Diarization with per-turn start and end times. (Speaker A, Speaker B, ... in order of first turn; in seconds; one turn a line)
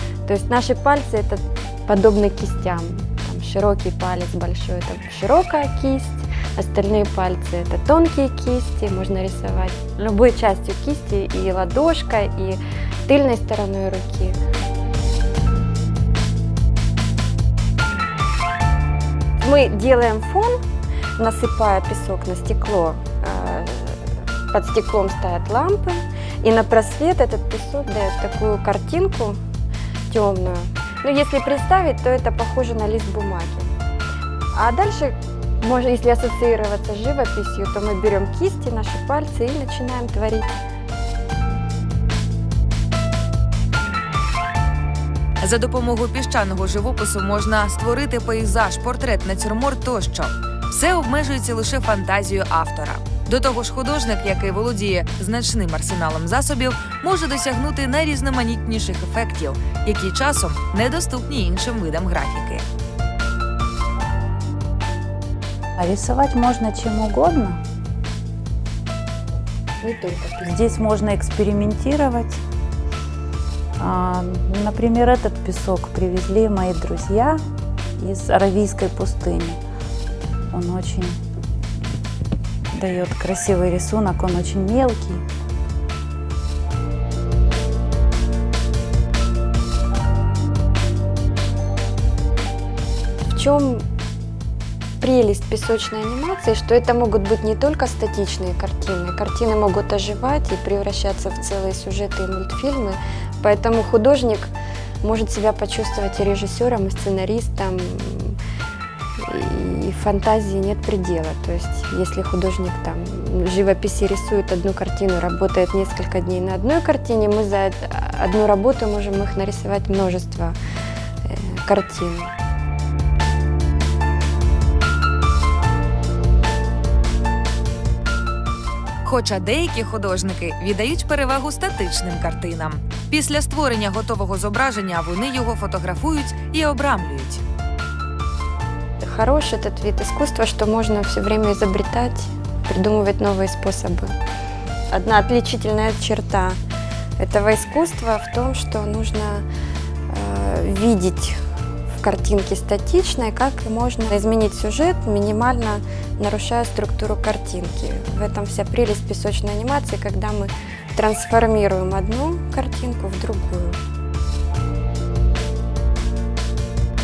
Speaker A: 0.2-14.4
Speaker A: 19.4-20.6
Speaker A: 21.2-29.4
Speaker A: 30.1-33.7
Speaker A: 34.5-40.5
Speaker B: 45.4-62.6
Speaker C: 65.8-67.6
Speaker A: 69.8-70.8
Speaker C: 70.4-72.4
Speaker C: 73.8-77.4
Speaker C: 78.0-79.6
Speaker C: 80.5-81.2
Speaker C: 82.7-85.2
Speaker A: 93.3-93.8
Speaker A: 95.0-104.5
Speaker A: 105.0-108.4
Speaker A: 109.2-120.6
Speaker A: 121.2-122.3
Speaker B: 129.0-137.4
Speaker A: 139.0-144.1
Speaker A: 144.9-146.6
Speaker A: 147.2-149.4
Speaker A: 150.1-151.4
Speaker A: 152.0-163.8